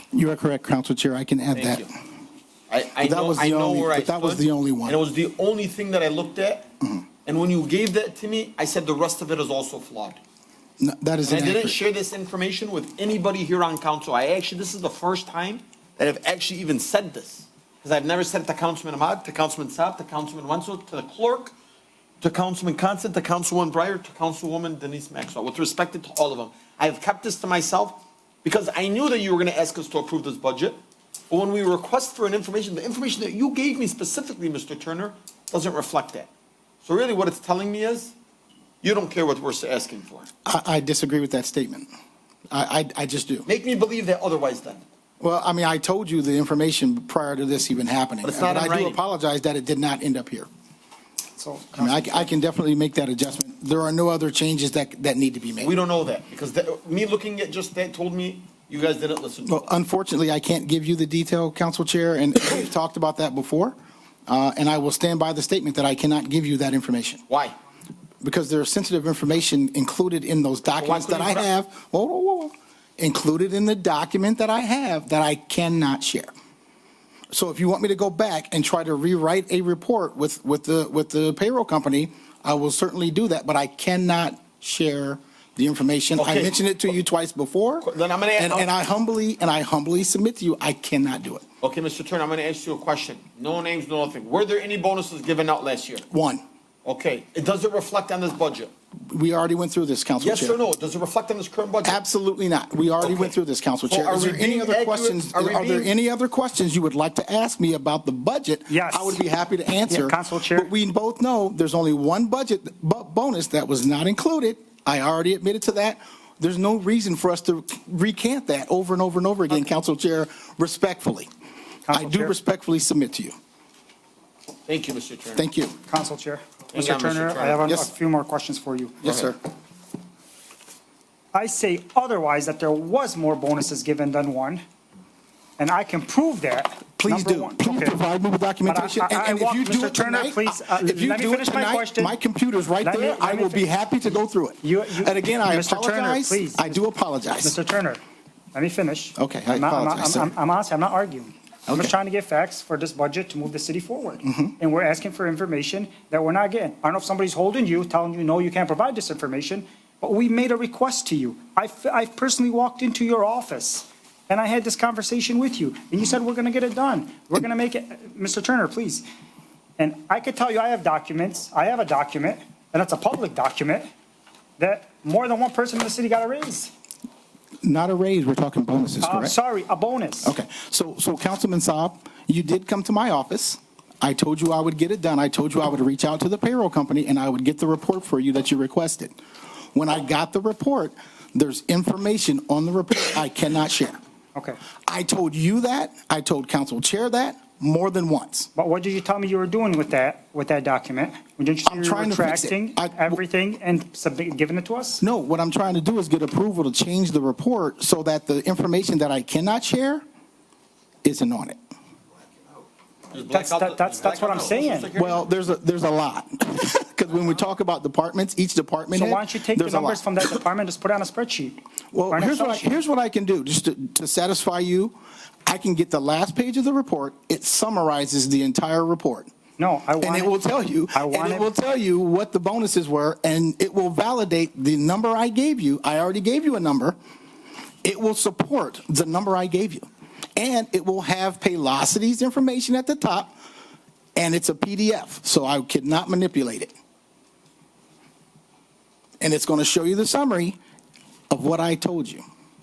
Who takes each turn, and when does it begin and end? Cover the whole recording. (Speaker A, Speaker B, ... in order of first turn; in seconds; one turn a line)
Speaker A: 0.1-1.9
Speaker B: 1.6-1.9
Speaker B: 2.7-6.7
Speaker A: 3.0-5.0
Speaker B: 7.2-10.2
Speaker A: 10.8-11.8
Speaker B: 11.2-21.5
Speaker B: 22.2-30.8
Speaker B: 31.3-36.3
Speaker B: 36.8-38.1
Speaker B: 38.8-40.3
Speaker A: 40.5-41.9
Speaker A: 42.5-43.5
Speaker B: 43.5-44.8
Speaker A: 45.2-50.5
Speaker B: 48.2-49.0
Speaker C: 51.4-52.3
Speaker A: 51.8-55.7
Speaker B: 55.6-59.7
Speaker A: 59.5-63.8
Speaker A: 64.3-67.2
Speaker B: 67.3-67.5
Speaker A: 68.2-76.3
Speaker B: 70.8-71.5
Speaker A: 77.3-91.5
Speaker B: 86.2-86.6
Speaker B: 87.8-88.7
Speaker B: 91.6-96.0
Speaker A: 96.1-96.4
Speaker B: 96.8-98.7
Speaker A: 99.1-100.6
Speaker B: 100.2-102.0
Speaker A: 101.8-121.3
Speaker B: 103.0-103.3
Speaker B: 103.9-105.9
Speaker C: 108.7-109.2
Speaker C: 109.9-110.7
Speaker C: 121.9-122.4
Speaker A: 121.9-123.4
Speaker B: 124.7-125.4
Speaker A: 125.4-125.8
Speaker C: 125.9-129.0
Speaker B: 126.7-127.7
Speaker A: 129.0-129.4
Speaker B: 129.1-129.3
Speaker C: 131.3-134.6
Speaker C: 135.6-138.0
Speaker A: 137.0-147.5
Speaker C: 138.7-142.2
Speaker C: 142.8-143.7
Speaker C: 144.6-146.8
Speaker C: 147.4-148.0
Speaker C: 148.5-169.1
Speaker A: 149.2-150.3
Speaker A: 151.7-151.9
Speaker A: 154.2-154.6
Speaker C: 169.8-173.9
Speaker C: 174.6-176.7
Speaker A: 177.6-179.4
Speaker C: 179.0-180.3
Speaker A: 180.2-189.2
Speaker A: 189.7-194.0
Speaker C: 194.3-194.6
Speaker A: 194.9-198.5
Speaker C: 198.6-205.0
Speaker A: 201.7-203.2
Speaker A: 205.0-210.0
Speaker A: 211.0-211.6
Speaker B: 213.1-215.3
Speaker C: 213.1-214.9
Speaker A: 214.9-220.3
Speaker C: 218.9-221.6
Speaker A: 221.9-224.9
Speaker C: 222.1-222.7
Speaker A: 225.5-229.3
Speaker C: 229.6-230.4
Speaker A: 230.0-237.0
Speaker C: 230.9-231.5
Speaker A: 237.8-239.9
Speaker A: 240.4-243.4
Speaker A: 244.2-246.7
Speaker A: 249.2-250.6
Speaker A: 251.3-252.2